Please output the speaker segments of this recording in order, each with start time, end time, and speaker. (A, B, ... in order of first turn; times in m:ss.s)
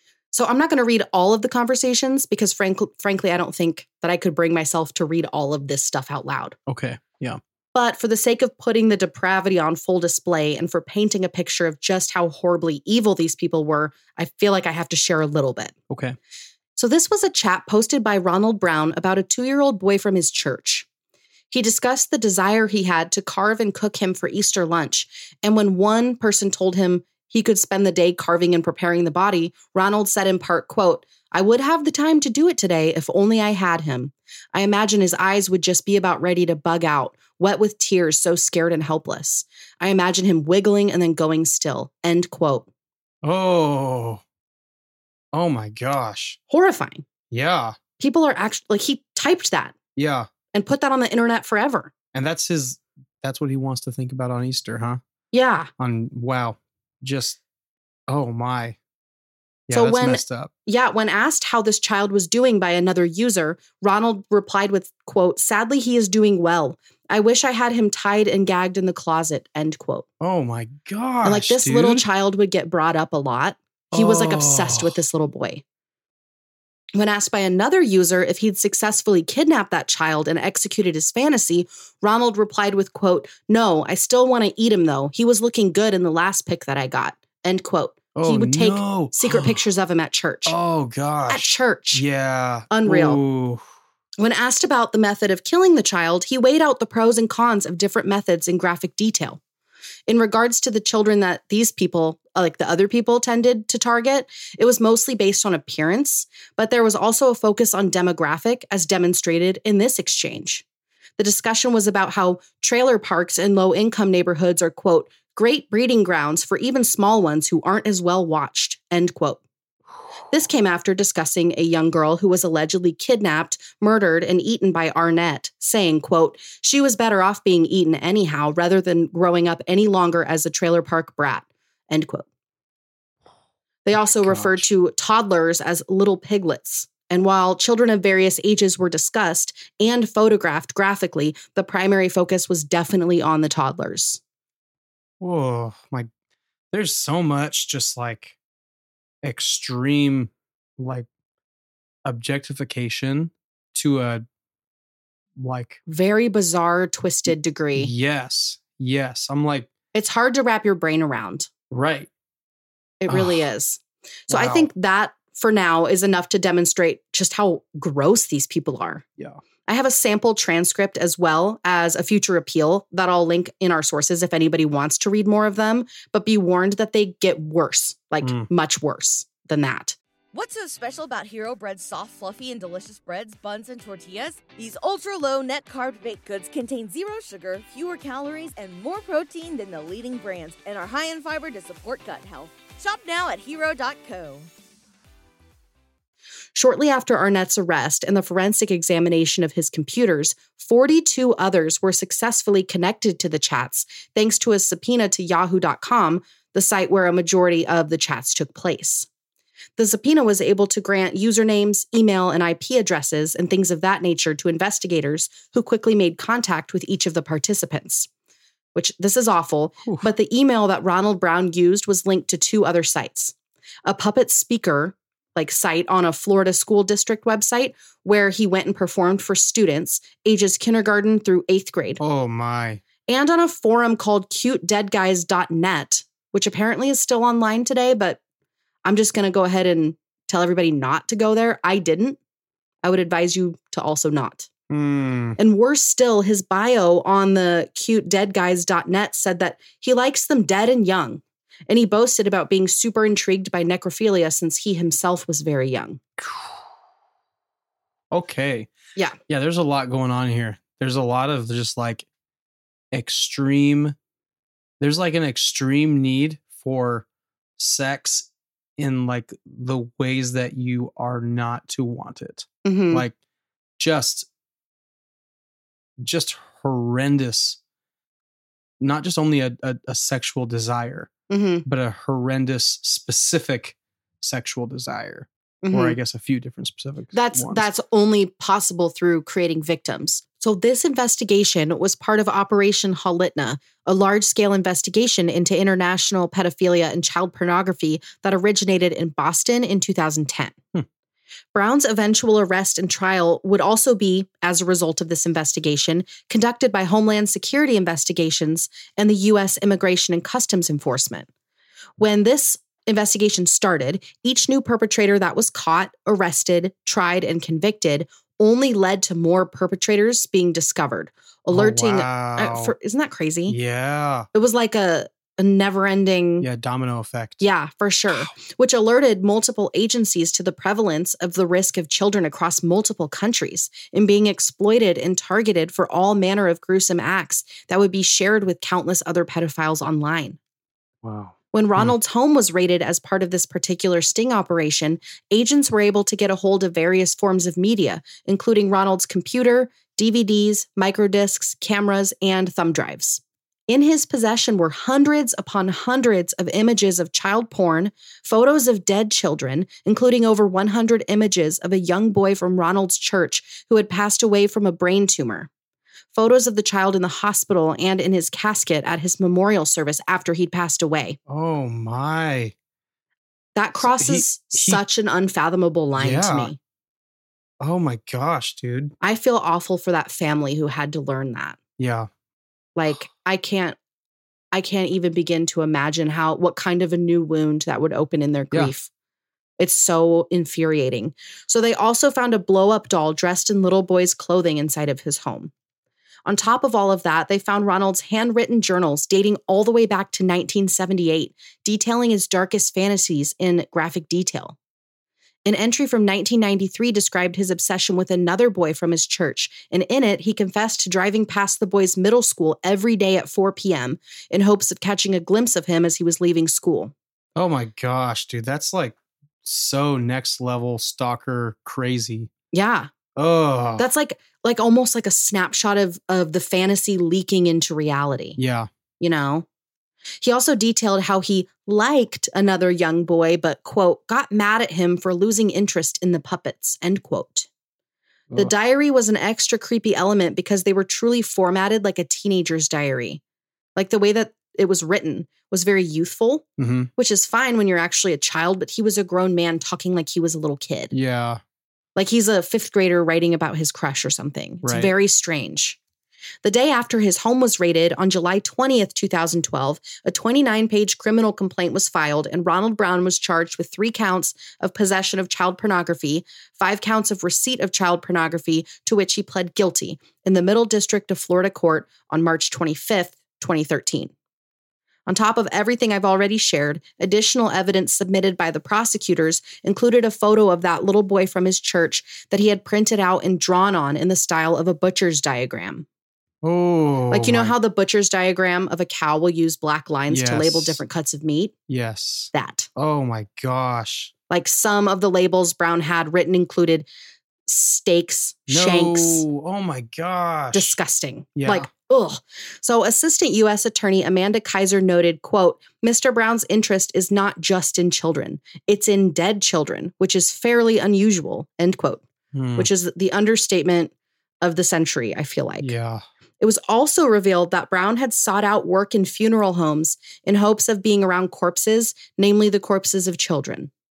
0:00.3-0:06.6 A
0:06.7-0:07.4 B
0:07.7-0:15.7 A
0:15.9-0:16.2 B
0:16.8-0:20.8 A
0:21.5-0:42.7 A
0:43.2-0:44.2 B
0:45.3-0:46.4 B
0:46.5-0:47.0 A
0:47.3-0:47.8 B
0:48.0-0:49.7 A
0:50.0-0:50.3 B
0:50.5-0:51.9 A
0:52.1-0:55.0 B
0:55.3-0:55.7 A
0:55.8-0:57.4 B
0:58.1-0:58.8 B
0:59.7-1:00.5 B
0:59.7-1:10.0 A
1:10.2-1:12.0 B
1:11.2-1:15.6 A
1:13.9-1:15.0 B
1:16.9-1:30.6 A
1:28.1-1:29.6 B
1:30.4-1:33.6 B
1:31.3-1:32.0 A
1:32.7-1:33.2 A
1:34.2-1:39.4 A
1:40.1-1:50.6 A
1:51.2-1:59.4 A
2:00.3-2:12.2 A
2:13.8-2:24.2 A
2:13.9-2:14.7 B
2:25.2-2:26.1 B
2:26.7-2:28.4 B
2:29.2-2:31.1 B
2:32.0-2:34.2 B
2:35.4-2:35.8 B
2:35.9-2:37.9 A
2:37.7-2:39.7 B
2:39.9-2:41.5 A
2:41.7-2:42.1 B
2:43.0-2:49.0 A
2:43.1-2:43.4 B
2:44.3-2:44.7 B
2:49.6-3:00.0 A
2:58.2-2:58.5 B
3:00.3-3:14.5 C
3:16.5-3:29.1 A
3:29.8-3:38.1 A
3:38.7-3:43.3 A
3:43.8-3:52.0 A
3:52.0-3:52.8 B
3:53.1-3:58.2 A
3:58.8-4:02.2 A
4:02.8-4:04.5 A
4:04.7-4:05.4 B
4:05.4-4:16.0 A
4:16.2-4:16.6 B
4:18.1-4:18.7 B
4:19.3-4:22.0 B
4:22.9-4:24.0 B
4:24.8-4:27.0 B
4:27.6-4:33.1 B
4:32.6-4:33.0 A
4:33.8-4:34.3 B
4:36.0-4:37.6 B
4:38.8-4:41.1 B
4:41.3-4:41.6 A
4:41.6-4:47.7 B
4:45.6-4:46.0 A
4:47.1-5:00.6 A
5:01.5-5:11.3 A
5:12.0-5:23.6 A
5:21.5-5:22.7 B
5:23.5-5:24.3 B
5:24.3-5:26.5 A
5:26.4-5:27.4 B
5:27.4-5:40.4 A
5:41.0-5:42.0 B
5:41.5-6:05.5 A
6:06.1-6:11.2 A
6:11.3-6:12.5 B
6:13.5-6:16.6 A
6:13.8-6:14.8 B
6:16.0-6:16.5 B
6:17.6-6:18.9 B
6:19.0-6:21.6 A
6:21.8-6:22.1 B
6:22.8-6:23.8 A
6:24.5-6:28.9 A
6:29.6-6:35.5 A
6:36.2-6:44.6 A
6:45.4-6:56.9 A
6:57.4-7:02.3 B
7:02.5-7:02.9 A
7:03.2-7:03.8 B
7:03.8-7:08.4 A
7:08.4-7:08.7 B
7:09.0-7:09.4 A
7:10.2-7:17.5 A
7:18.3-7:23.2 A
7:23.8-7:26.4 A
7:26.6-7:26.9 B
7:27.0-7:30.9 A
7:30.9-7:31.4 B
7:32.0-7:35.8 A
7:34.6-7:34.9 B
7:36.4-7:54.1 A
7:55.1-8:05.8 A
8:06.4-8:07.5 B
8:07.1-8:11.5 A
8:10.1-8:10.8 B
8:11.7-8:14.1 B
8:12.3-8:12.7 A
8:14.3-8:16.9 A
8:17.4-8:19.2 A
8:18.5-8:20.7 B
8:20.5-8:32.0 A
8:21.4-8:21.7 B
8:32.3-8:32.7 B
8:32.6-8:35.7 A
8:35.6-8:36.0 B
8:36.4-8:43.7 A